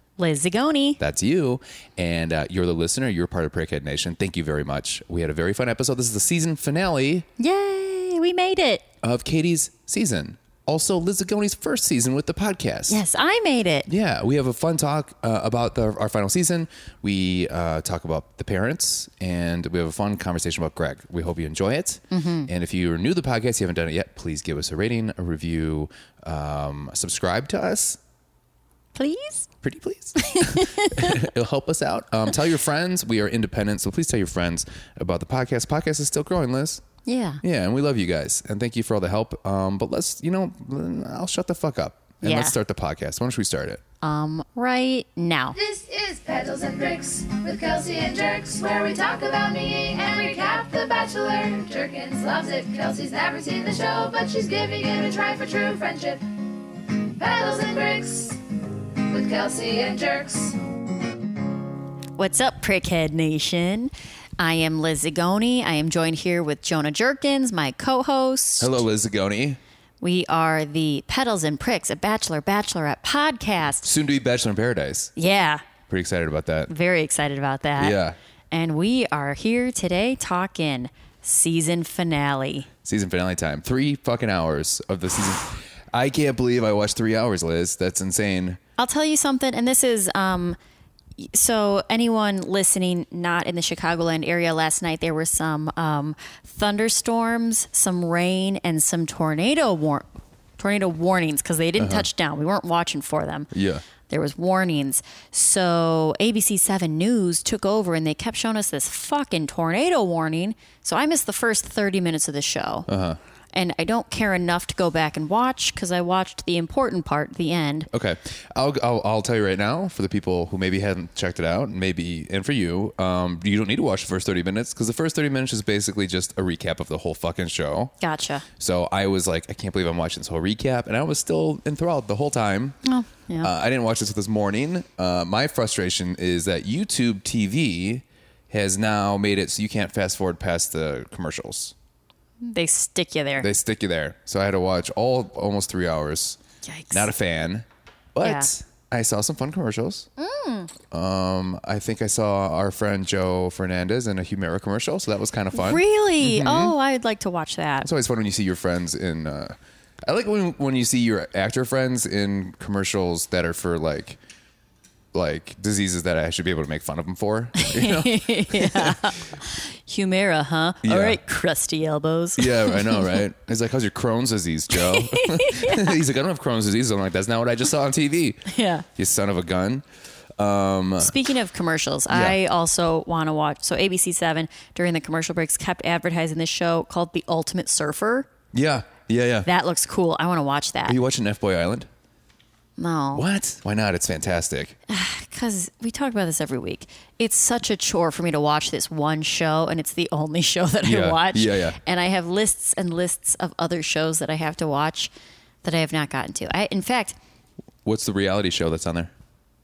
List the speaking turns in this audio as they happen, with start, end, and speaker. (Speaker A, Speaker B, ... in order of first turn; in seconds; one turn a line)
Speaker A: 0.2-1.0
Speaker B: 1.0-7.3
Speaker A: 7.4-8.8
Speaker B: 9.0-13.0
Speaker A: 12.9-13.9
Speaker B: 13.9-28.0
Speaker A: 22.1-22.5
Speaker A: 28.9-29.5
Speaker B: 29.6-36.8
Speaker A: 30.2-31.2
Speaker A: 37.0-37.4
Speaker B: 37.4-43.8
Speaker A: 42.2-42.6
Speaker A: 44.0-45.5
Speaker C: 45.5-56.2
Speaker C: 57.1-58.4
Speaker C: 59.1-60.6
Speaker A: 62.2-68.8
Speaker B: 68.6-69.6
Speaker A: 70.0-73.9
Speaker B: 73.8-75.1
Speaker A: 75.2-75.7
Speaker B: 75.9-76.7
Speaker A: 76.7-78.0
Speaker B: 77.8-78.2
Speaker A: 78.5-82.7
Speaker B: 82.8-88.6
Speaker A: 88.8-90.6
Speaker A: 91.2-112.9
Speaker B: 101.8-102.0
Speaker B: 103.5-103.8
Speaker B: 112.9-113.2
Speaker A: 113.5-117.9
Speaker B: 117.9-127.9
Speaker A: 128.0-128.4
Speaker B: 128.6-132.8
Speaker A: 132.8-133.5
Speaker B: 133.4-141.7
Speaker A: 142.4-143.5
Speaker B: 143.4-146.4
Speaker A: 146.6-147.1
Speaker B: 146.9-150.1
Speaker A: 148.2-148.5
Speaker A: 150.2-150.7
Speaker B: 150.9-156.7
Speaker A: 155.5-157.9
Speaker B: 157.8-164.2
Speaker B: 165.1-169.1
Speaker A: 167.6-173.2
Speaker B: 170.8-171.2
Speaker B: 172.4-179.8
Speaker A: 174.7-176.0
Speaker A: 178.5-178.9
Speaker B: 180.4-181.1
Speaker A: 181.0-188.3
Speaker B: 182.1-182.4
Speaker B: 188.5-189.5
Speaker A: 189.4-191.0
Speaker B: 190.9-191.9
Speaker A: 192.8-193.2
Speaker B: 193.1-194.8
Speaker A: 194.9-205.1
Speaker B: 200.8-201.8
Speaker A: 205.6-207.2
Speaker B: 207.8-209.1